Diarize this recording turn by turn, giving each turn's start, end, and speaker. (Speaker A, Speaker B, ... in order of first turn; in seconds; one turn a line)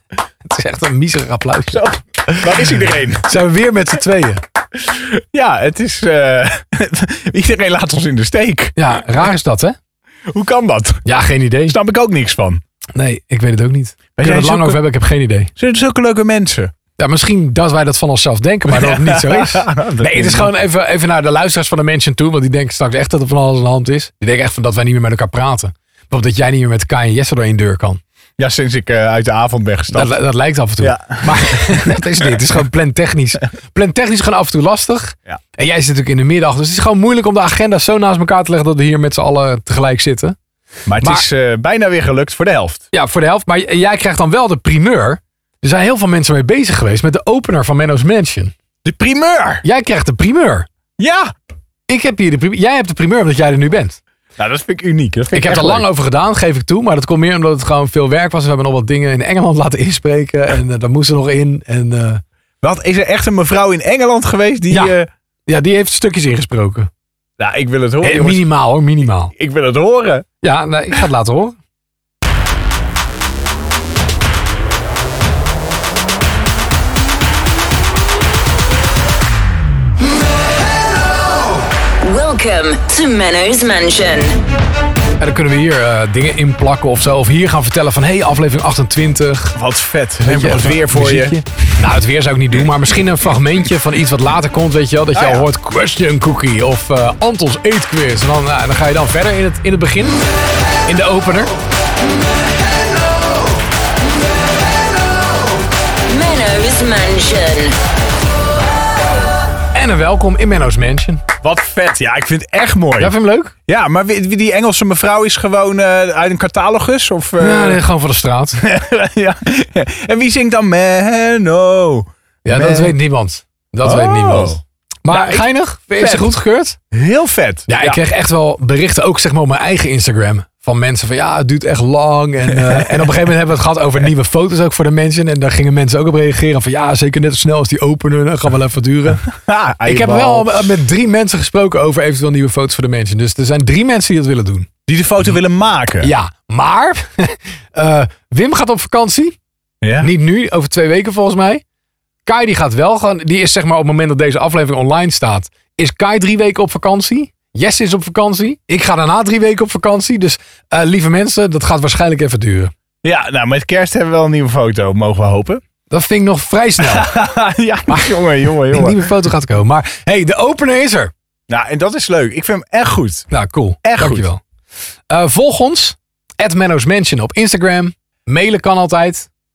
Speaker A: 0.5-2.6
Speaker B: 1.7-3.3
Speaker A: 3.2-4.4
Speaker B: 4.8-8.8
Speaker A: 8.8-9.8
Speaker B: 10.3-11.1
Speaker A: 11.1-11.8
Speaker B: 11.7-12.6
Speaker A: 12.9-15.5
Speaker B: 14.2-14.8
Speaker B: 15.6-16.7
Speaker A: 17.0-28.0
Speaker B: 18.7-20.5
Speaker B: 28.4-30.2
Speaker A: 29.9-40.4
Speaker B: 30.8-32.0
Speaker B: 40.9-42.8
Speaker A: 42.9-48.5
Speaker B: 48.8-49.6
Speaker A: 49.6-50.7
Speaker B: 51.0-51.3
Speaker A: 51.9-54.0
Speaker B: 54.4-55.9
Speaker A: 55.3-62.2
Speaker B: 62.6-65.1
Speaker A: 65.5-66.9
Speaker B: 67.4-68.5
Speaker A: 68.0-69.3
Speaker B: 69.4-70.3
Speaker A: 70.4-71.6
Speaker C: 82.0-84.3
Speaker A: 85.2-89.6
Speaker B: 89.5-91.4
Speaker A: 90.2-100.2
Speaker B: 95.1-95.5
Speaker A: 100.9-101.5
Speaker C: 106.1-107.8
Speaker A: 109.7-111.2
Speaker B: 111.4-113.1
Speaker A: 113.0-113.5
Speaker B: 113.7-117.8
Speaker A: 117.4-118.6
Speaker B: 118.6-123.0
Speaker A: 122.5-126.8
Speaker B: 123.8-125.5
Speaker B: 126.0-126.3
Speaker B: 126.9-128.0
Speaker A: 127.7-139.2
Speaker B: 139.4-140.7
Speaker A: 139.9-144.7
Speaker B: 144.9-146.1
Speaker A: 146.0-149.4
Speaker B: 149.8-150.1
Speaker A: 150.0-151.6
Speaker A: 152.3-162.7
Speaker B: 163.0-165.6
Speaker A: 165.9-167.1
Speaker B: 166.9-169.1
Speaker A: 167.9-171.1
Speaker B: 171.5-173.3
Speaker A: 173.3-174.4
Speaker B: 173.8-174.3
Speaker A: 175.1-179.3